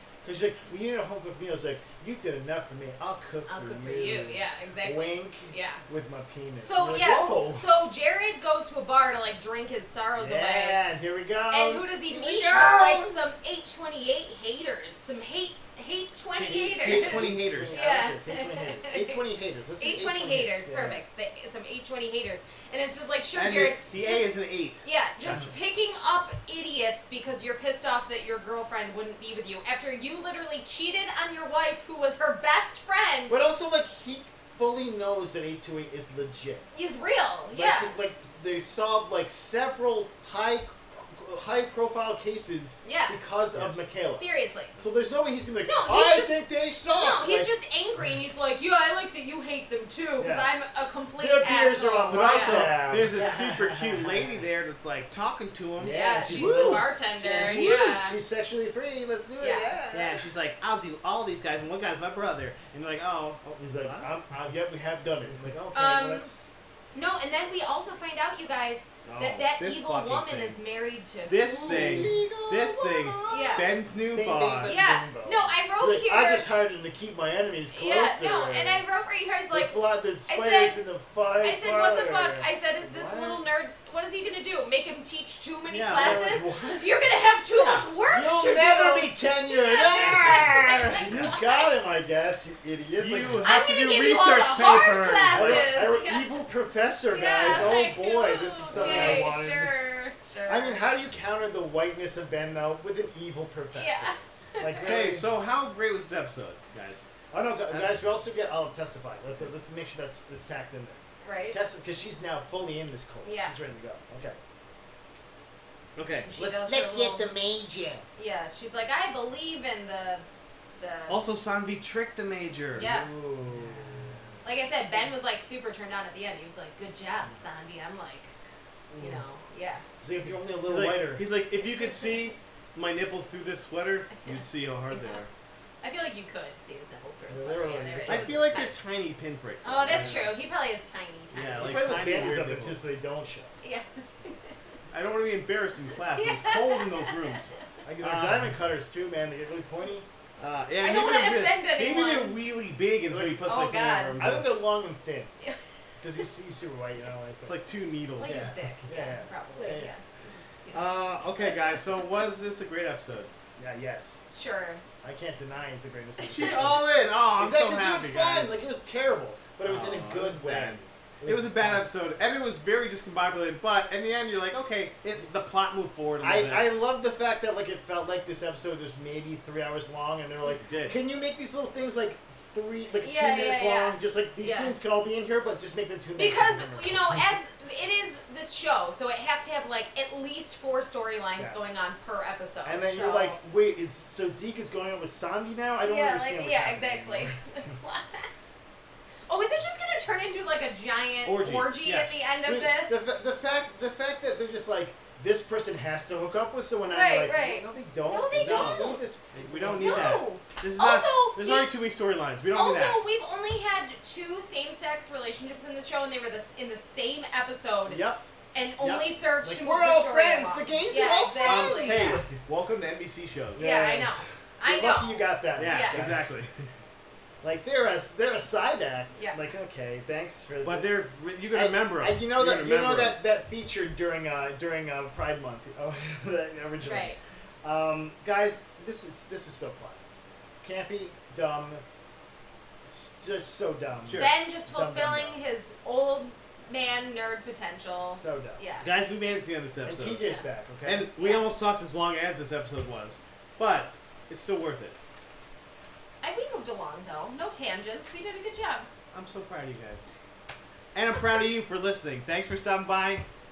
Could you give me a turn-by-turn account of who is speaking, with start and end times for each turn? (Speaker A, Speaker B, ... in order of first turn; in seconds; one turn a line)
Speaker A: 0.2-7.7
Speaker B: 3.5-5.8
Speaker B: 6.6-10.8
Speaker A: 10.2-13.2
Speaker B: 11.5-19.2
Speaker C: 16.4-17.8
Speaker A: 16.5-21.0
Speaker B: 19.8-24.3
Speaker C: 23.3-24.9
Speaker B: 24.8-33.4
Speaker A: 25.2-25.5
Speaker A: 33.3-36.7
Speaker B: 36.7-38.0
Speaker A: 37.5-44.2
Speaker B: 42.8-43.2
Speaker C: 43.5-43.8
Speaker B: 44.1-44.8
Speaker A: 44.8-47.5
Speaker B: 45.6-53.4
Speaker A: 50.2-50.5
Speaker A: 51.2-54.4
Speaker C: 52.1-57.9
Speaker A: 55.8-60.2
Speaker B: 55.8-58.2
Speaker B: 59.4-59.8
Speaker C: 59.9-64.2
Speaker A: 63.6-66.4
Speaker B: 65.7-66.3
Speaker B: 67.0-72.2
Speaker C: 69.0-70.6
Speaker C: 71.2-74.8
Speaker A: 71.6-78.8
Speaker B: 73.2-73.7
Speaker B: 74.6-76.5
Speaker B: 77.7-80.8
Speaker A: 79.5-83.4
Speaker B: 81.4-91.8
Speaker C: 85.7-86.8
Speaker A: 85.9-86.8
Speaker C: 87.5-87.9
Speaker A: 88.1-93.5
Speaker C: 93.0-95.8
Speaker B: 93.4-96.3
Speaker A: 95.3-99.8
Speaker B: 97.1-100.8
Speaker C: 97.4-97.8
Speaker C: 98.7-99.4
Speaker A: 100.5-105.3
Speaker B: 103.7-104.9
Speaker C: 104.8-107.1
Speaker A: 107.3-114.4
Speaker C: 107.7-108.1
Speaker B: 111.2-111.6
Speaker B: 113.2-113.5
Speaker C: 116.0-116.3
Speaker B: 116.2-117.3
Speaker A: 116.4-118.0
Speaker B: 118.2-120.2
Speaker B: 120.8-121.2
Speaker C: 121.1-122.9
Speaker B: 122.8-123.1
Speaker A: 122.8-124.3
Speaker B: 124.4-128.3
Speaker A: 128.9-129.2
Speaker B: 129.0-129.8
Speaker A: 130.0-131.3
Speaker C: 130.2-135.3
Speaker B: 131.5-132.4
Speaker B: 134.2-135.2
Speaker B: 135.8-138.9
Speaker A: 137.3-138.5
Speaker C: 138.1-140.4
Speaker B: 139.6-142.2
Speaker A: 139.9-140.2
Speaker C: 141.3-142.8
Speaker A: 141.6-143.6
Speaker B: 143.6-144.5
Speaker C: 144.9-148.6
Speaker B: 146.1-147.6
Speaker A: 147.8-150.1
Speaker C: 150.4-154.6
Speaker B: 150.8-152.4
Speaker A: 153.1-153.5
Speaker B: 153.4-154.1
Speaker A: 154.2-155.3
Speaker A: 156.0-157.6
Speaker C: 157.5-158.6
Speaker B: 158.2-162.0
Speaker A: 158.2-159.9
Speaker C: 160.7-163.3
Speaker A: 163.6-164.2
Speaker B: 164.3-164.8
Speaker A: 165.0-171.9
Speaker C: 166.3-168.5
Speaker B: 166.3-166.6
Speaker C: 169.6-176.7
Speaker A: 176.2-187.2
Speaker C: 180.6-181.0
Speaker B: 183.0-184.8
Speaker B: 186.2-193.4
Speaker A: 192.6-197.4
Speaker B: 195.8-198.5
Speaker B: 199.3-202.9
Speaker C: 201.2-202.2
Speaker A: 202.4-210.2
Speaker B: 206.9-209.0
Speaker C: 208.4-213.0
Speaker B: 209.8-211.7
Speaker B: 212.5-222.2
Speaker A: 217.9-218.2
Speaker A: 218.8-222.4
Speaker C: 221.4-223.7
Speaker A: 223.5-226.4
Speaker B: 223.6-226.1
Speaker C: 225.6-226.7
Speaker A: 227.4-230.9
Speaker C: 230.6-233.2
Speaker A: 231.5-240.0
Speaker B: 236.8-237.2
Speaker A: 240.6-241.8
Speaker A: 242.8-245.4
Speaker C: 244.1-244.3
Speaker B: 244.2-248.9
Speaker A: 248.1-248.6
Speaker C: 248.8-250.2
Speaker A: 249.8-251.1
Speaker C: 250.8-255.0
Speaker B: 251.2-251.4
Speaker B: 256.2-258.9
Speaker C: 259.1-260.1
Speaker C: 260.9-263.2